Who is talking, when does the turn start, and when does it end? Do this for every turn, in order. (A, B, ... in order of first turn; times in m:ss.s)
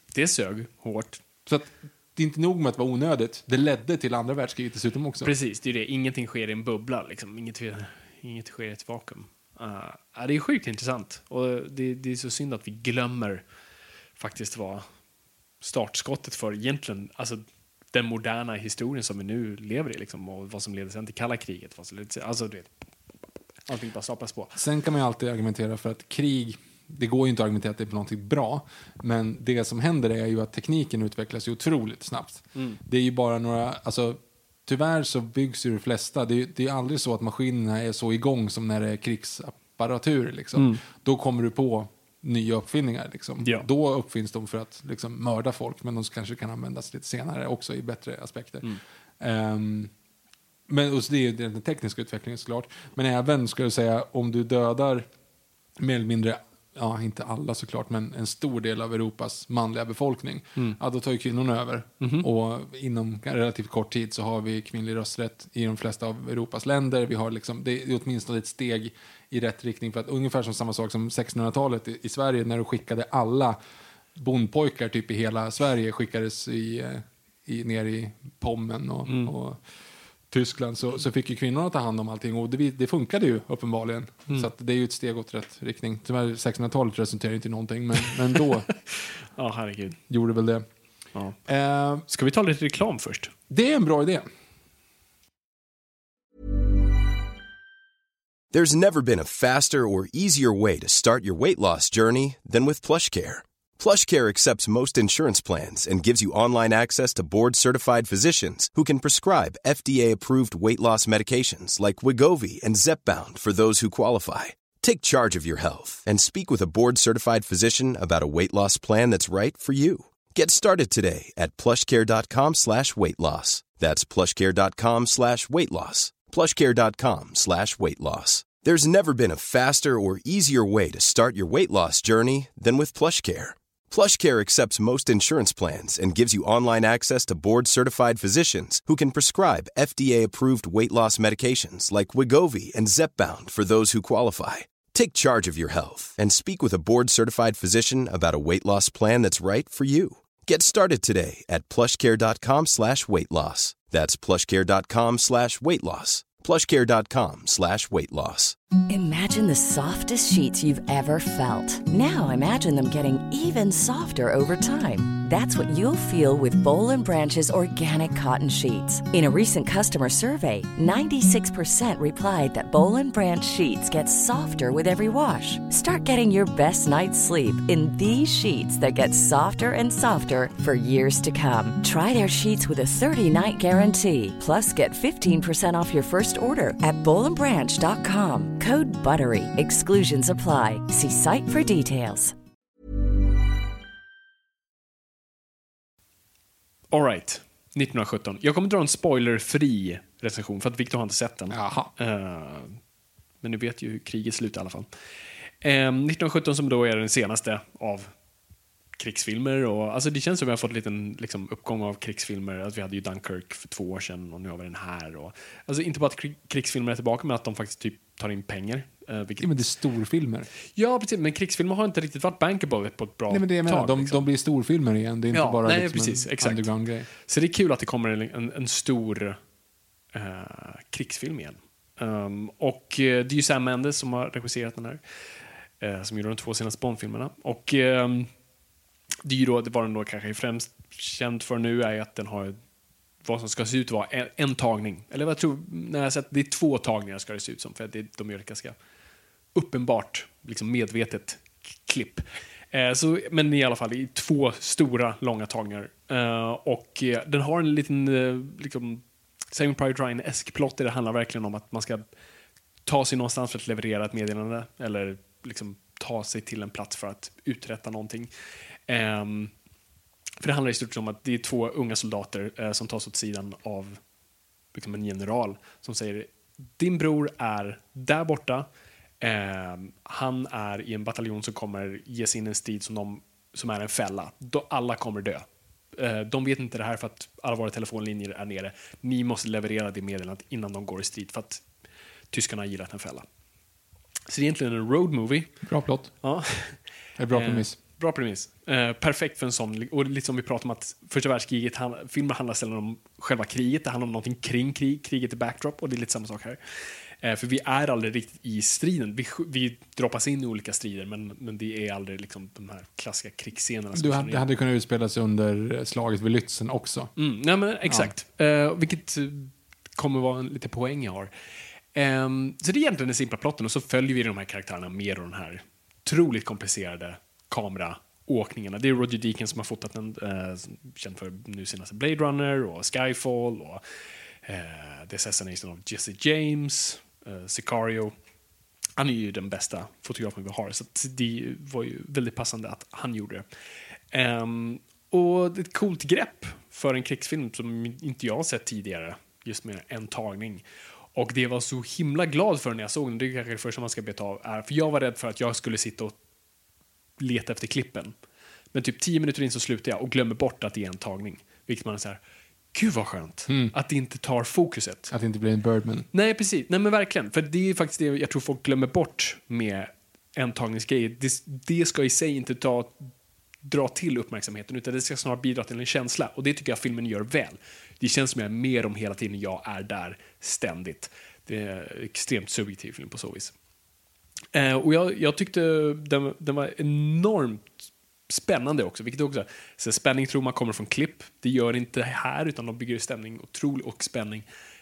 0:00.1-0:01.2 A
0:01.4-0:05.3 B
0:05.2-0:13.4 A
0:14.2-0:14.9 A
0:15.6-0:22.7 A
0:23.7-0:24.5 A
0:24.6-0:49.9 B
0:40.6-0:40.8 A
0:50.7-0:55.1 B
0:55.8-1:13.6 B
1:02.0-1:02.3 A
1:14.2-1:19.6 B
1:19.1-1:19.3 A
1:20.3-1:28.7 B
1:28.3-1:30.0 A
1:30.1-1:30.6 B
1:31.5-1:32.0 B
1:32.1-1:33.3 A
1:33.5-1:34.3 B
1:38.5-2:38.6 C
2:38.9-3:12.4 D
3:16.9-3:22.8 A
3:21.5-3:21.9 B
3:23.4-3:24.9 A
3:25.6-3:28.1 A
3:29.0-3:39.5 A
3:39.4-3:40.5 B
3:40.8-3:44.2 A
3:43.3-3:47.1 B
3:45.3-3:49.4 A
3:50.1-3:55.0 A
3:55.8-3:58.3 A
3:59.2-4:02.6 A
4:03.2-4:08.8 A
4:09.5-4:22.0 A
4:22.9-4:28.3 A
4:28.9-4:29.5 A
4:30.4-4:34.0 A
4:34.7-4:38.7 A
4:39.2-4:51.6 A
4:52.3-4:53.3 A
4:54.3-4:55.5 A
4:55.6-4:56.1 B
4:56.2-4:56.8 A
4:57.2-4:57.8 B
4:57.3-5:06.6 A
5:07.2-5:14.4 A
5:13.9-5:17.1 B
5:17.2-5:21.3 A
5:17.9-5:18.2 B
5:21.9-5:33.8 A
5:34.4-5:38.1 A
5:39.0-5:43.4 A
5:44.1-5:50.6 A
5:51.2-5:56.2 A
5:57.2-5:58.1 A
5:58.7-6:02.2 A
6:02.7-6:05.1 A
6:03.5-6:03.7 B
6:05.1-6:06.1 B
6:06.1-6:13.1 A
6:13.6-6:23.5 A
6:24.5-6:34.4 A